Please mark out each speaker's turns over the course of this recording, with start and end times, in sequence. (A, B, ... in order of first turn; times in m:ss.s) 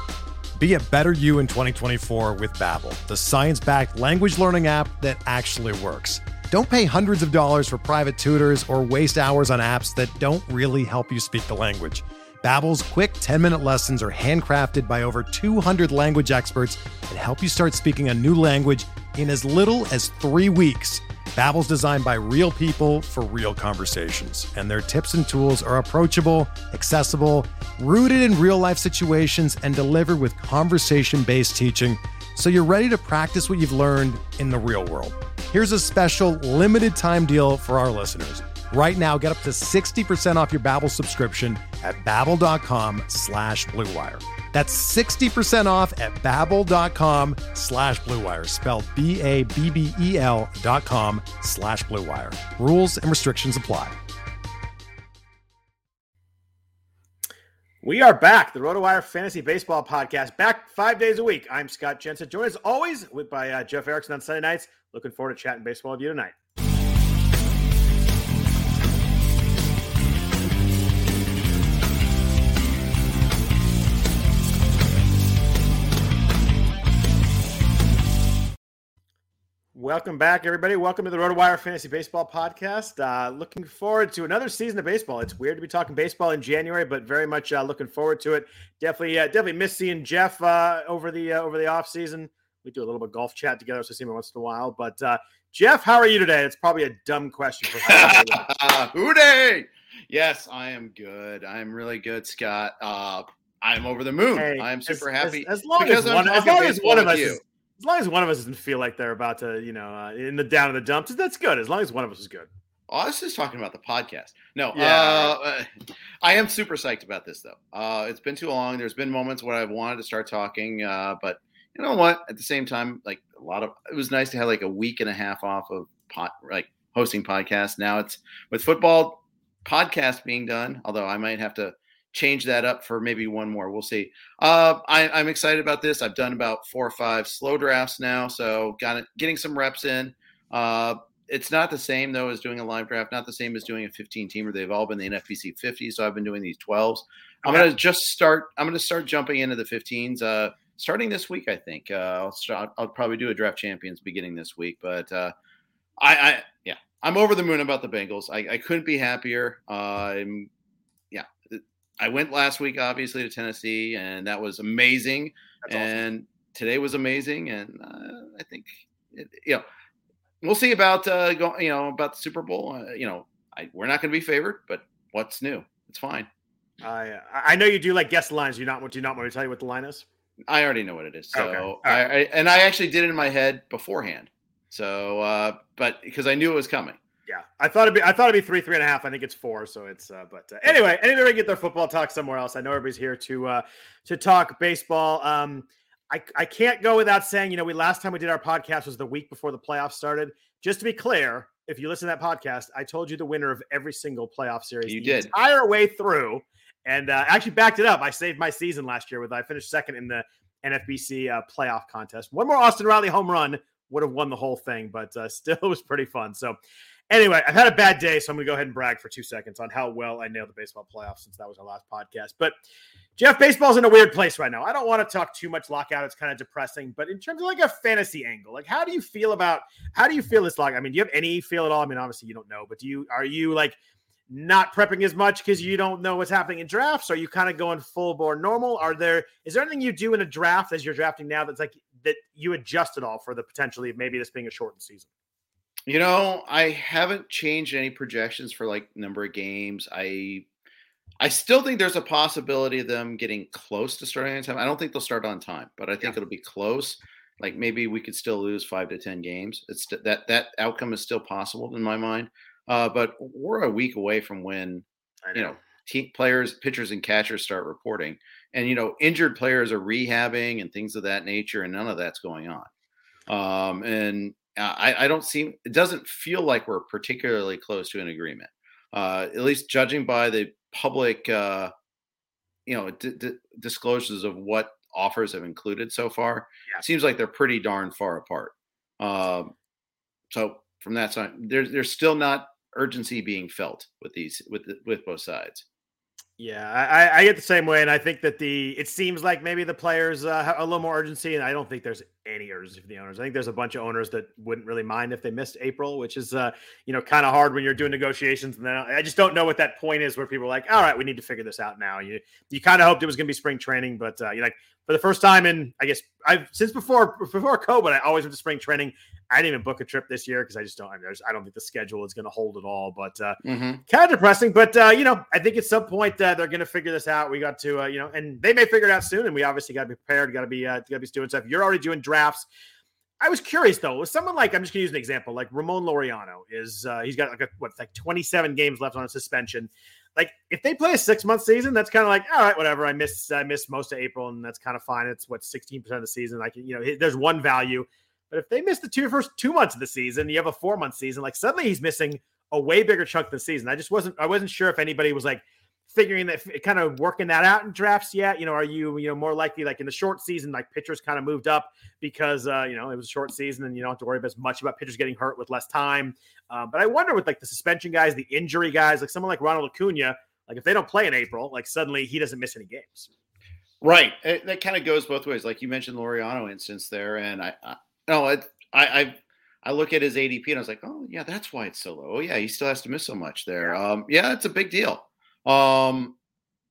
0:00.6-0:54.0 A
0:57.8-1:06.3 B
1:19.8-1:38.5 B
1:37.7-1:47.4 C
1:44.4-1:52.5 B
1:52.9-1:55.7 C
1:54.7-1:55.4 B
1:56.2-2:35.3 C
2:27.4-2:27.7 B
2:36.0-2:40.5 C
2:41.1-2:49.7 C
2:45.6-2:46.0 B
2:50.4-2:56.3 C
2:56.8-3:00.1 B
3:00.5-3:07.0 C
3:01.3-3:02.0 B
3:07.3-3:36.6 B
3:24.9-3:25.3 C
3:37.1-3:42.6 B
3:43.2-3:53.8 B
3:54.3-4:05.1 B
4:05.9-4:10.5 C
4:11.2-4:32.7 C
4:25.2-4:25.6 B
4:33.3-4:41.7 C
4:42.7-4:49.5 C
4:50.3-4:55.6 C
4:56.4-5:32.5 B
5:23.4-5:23.8 C
5:33.2-6:13.1 B
6:13.8-6:26.2 C